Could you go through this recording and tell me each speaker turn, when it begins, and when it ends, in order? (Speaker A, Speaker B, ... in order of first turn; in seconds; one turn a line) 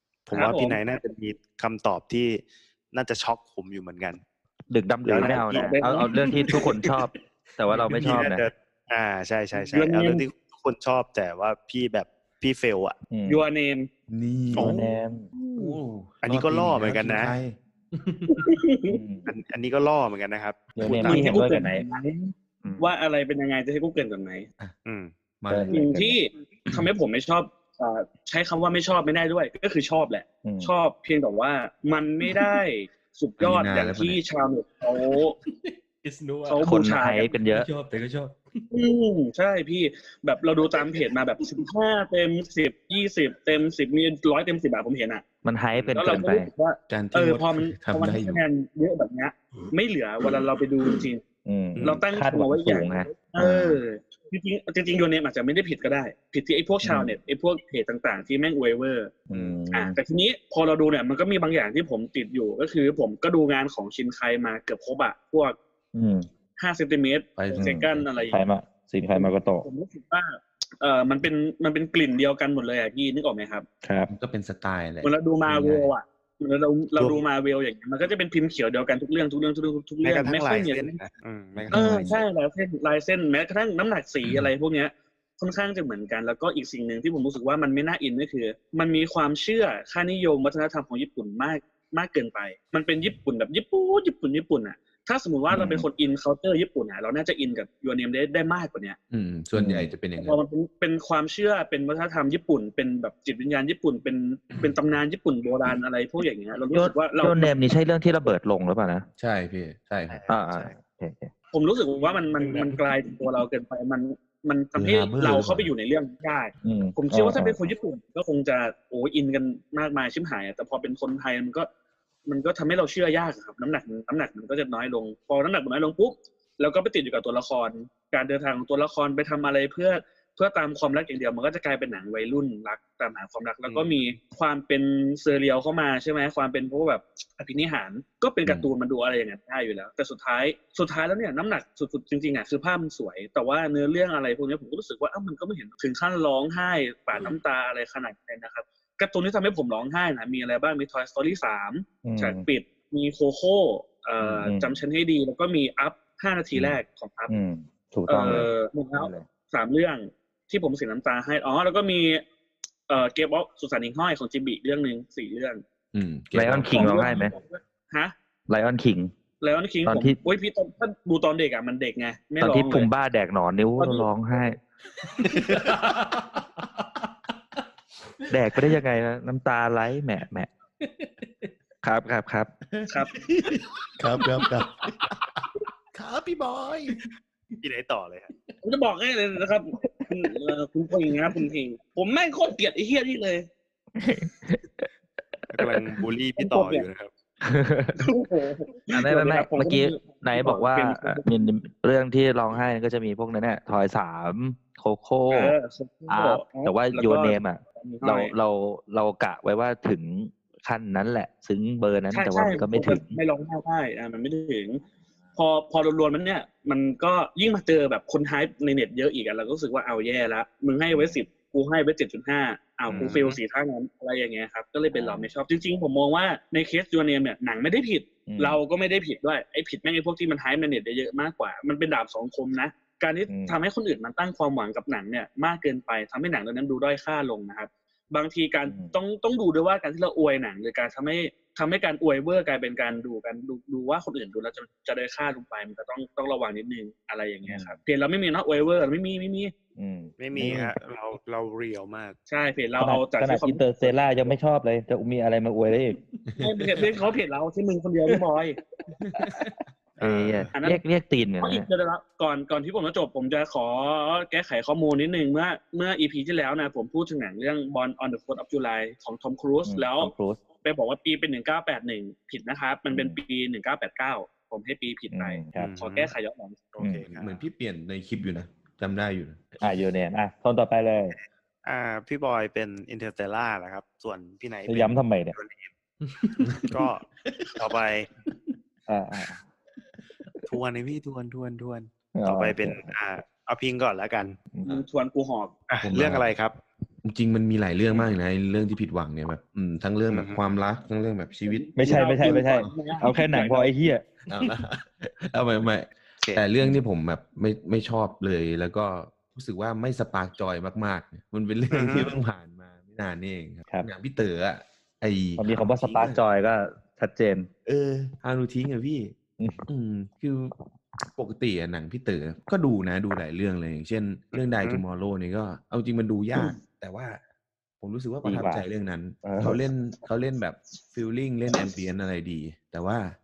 Speaker A: 0.3-4.2
Speaker B: 0.3-0.8
Speaker C: 4.7-8.5
Speaker A: 5.0-5.9
Speaker B: 5.1-6.1
Speaker D: 6.3-6.8
Speaker D: 7.7-8.2
Speaker A: 7.8-13.0
Speaker B: 9.7-10.2
Speaker C: 13.1-13.4
Speaker B: 13.3-13.9
Speaker E: 14.1-17.6
Speaker C: 14.5-15.3
Speaker A: 14.5-14.8
Speaker A: 16.2-17.3
Speaker D: 17.9-18.4
Speaker B: 18.3-19.0
Speaker C: 18.9-19.3
Speaker A: 19.2-21.5
Speaker C: 20.8-21.8
Speaker B: 21.0-24.5
Speaker C: 22.6-22.9
Speaker A: 24.8-25.1
Speaker E: 25.4-25.9
Speaker C: 25.5-26.2
Speaker B: 25.7-35.3
Speaker C: 30.4-30.7
Speaker E: 33.4-34.2
Speaker D: 35.1-36.7
Speaker B: 36.5-37.3
Speaker C: 36.6-37.7
Speaker D: 37.4-38.6
Speaker B: 38.7-45.2
Speaker C: 45.4-46.5
Speaker B: 45.9-51.2
Speaker E: 46.9-48.4
Speaker C: 51.4-53.8
Speaker B: 51.8-59.1
Speaker C: 56.8-57.1
Speaker C: 59.3-60.0
Speaker A: 59.3-59.6
Speaker B: 59.7-65.5
Speaker C: 65.9-66.3
Speaker B: 66.6-68.4
Speaker E: 67.3-68.0
Speaker C: 67.5-69.7
Speaker B: 69.1-73.7
Speaker C: 73.8-74.1
Speaker E: 74.1-75.9
Speaker B: 75.0-81.0
Speaker A: 80.0-81.8
Speaker C: 81.7-82.2
Speaker B: 81.7-99.0
Speaker C: 95.5-95.8
Speaker E: 99.1-100.4
Speaker C: 99.5-99.9
Speaker B: 100.2-107.5
Speaker C: 106.7-109.1
Speaker E: 109.2-110.2
Speaker A: 110.1-110.7
Speaker C: 110.3-111.3
Speaker B: 111.5-121.7
Speaker D: 112.4-112.7
Speaker E: 114.7-115.7
Speaker C: 116.6-117.6
Speaker B: 122.2-157.3
Speaker A: 133.7-134.0
Speaker E: 138.4-138.7
Speaker C: 152.0-152.4
Speaker C: 154.2-154.8
Speaker E: 156.5-156.8
Speaker C: 157.3-159.3
Speaker B: 158.1-162.2
Speaker B: 162.9-165.6
Speaker E: 165.9-166.9
Speaker C: 166.3-167.3
Speaker B: 166.7-168.1
Speaker C: 168.5-169.1
Speaker B: 169.4-172.9
Speaker C: 169.8-170.2
Speaker C: 172.4-174.6
Speaker B: 173.8-174.1
Speaker D: 175.2-176.5
Speaker E: 175.2-175.7
Speaker D: 178.2-178.8
Speaker C: 178.3-180.5
Speaker D: 180.8-181.5
Speaker C: 181.8-182.5
Speaker E: 182.7-187.0
Speaker B: 182.9-183.1
Speaker A: 187.6-188.3
Speaker B: 188.6-193.5
Speaker C: 194.0-194.8
Speaker A: 195.5-197.1
Speaker C: 195.6-195.8
Speaker B: 196.4-196.8
Speaker C: 197.4-198.1
Speaker B: 198.0-201.3
Speaker C: 198.9-205.5
Speaker B: 205.3-208.3
Speaker C: 206.1-213.2
Speaker B: 212.1-214.8
Speaker B: 215.3-249.5
Speaker C: 222.9-223.1
Speaker A: 222.9-223.4
Speaker C: 224.9-225.3
Speaker C: 228.2-228.6
Speaker C: 233.3-233.6
Speaker C: 238.7-238.9
Speaker C: 247.4-247.8
Speaker C: 249.8-250.7
Speaker A: 250.2-252.2
Speaker B: 252.3-254.0
Speaker C: 252.8-256.0
Speaker E: 256.3-257.0
Speaker B: 256.4-258.6
Speaker E: 259.0-259.6
Speaker C: 259.1-259.5
Speaker A: 260.0-260.5
Speaker C: 260.0-261.7
Speaker B: 260.5-260.8
Speaker B: 261.4-270.1
Speaker C: 269.6-270.4
Speaker B: 270.6-276.6
Speaker C: 272.9-273.2
Speaker C: 275.1-275.7
Speaker A: 275.6-276.1
Speaker A: 276.7-277.4
Speaker C: 276.8-277.0
Speaker E: 277.1-279.6
Speaker C: 279.6-281.1
Speaker A: 281.1-285.7
Speaker C: 284.7-285.3
Speaker D: 286.0-286.4
Speaker E: 286.4-286.7
Speaker A: 286.7-288.1
Speaker E: 287.2-287.6
Speaker C: 288.9-289.4
Speaker A: 290.4-294.4
Speaker C: 292.1-292.9
Speaker C: 294.5-294.8
Speaker B: 294.6-295.5
Speaker A: 295.7-296.6
Speaker E: 295.8-296.3
Speaker E: 297.0-302.7
Speaker A: 300.1-300.4
Speaker B: 301.4-303.8
Speaker C: 301.8-304.1
Speaker E: 304.3-316.2
Speaker A: 311.7-312.2
Speaker C: 315.4-317.5
Speaker E: 317.6-319.1
Speaker C: 319.4-319.6
Speaker E: 319.7-320.5
Speaker E: 321.1-327.2
Speaker A: 324.3-324.8
Speaker E: 327.8-333.1
Speaker C: 328.2-328.6
Speaker C: 329.2-329.6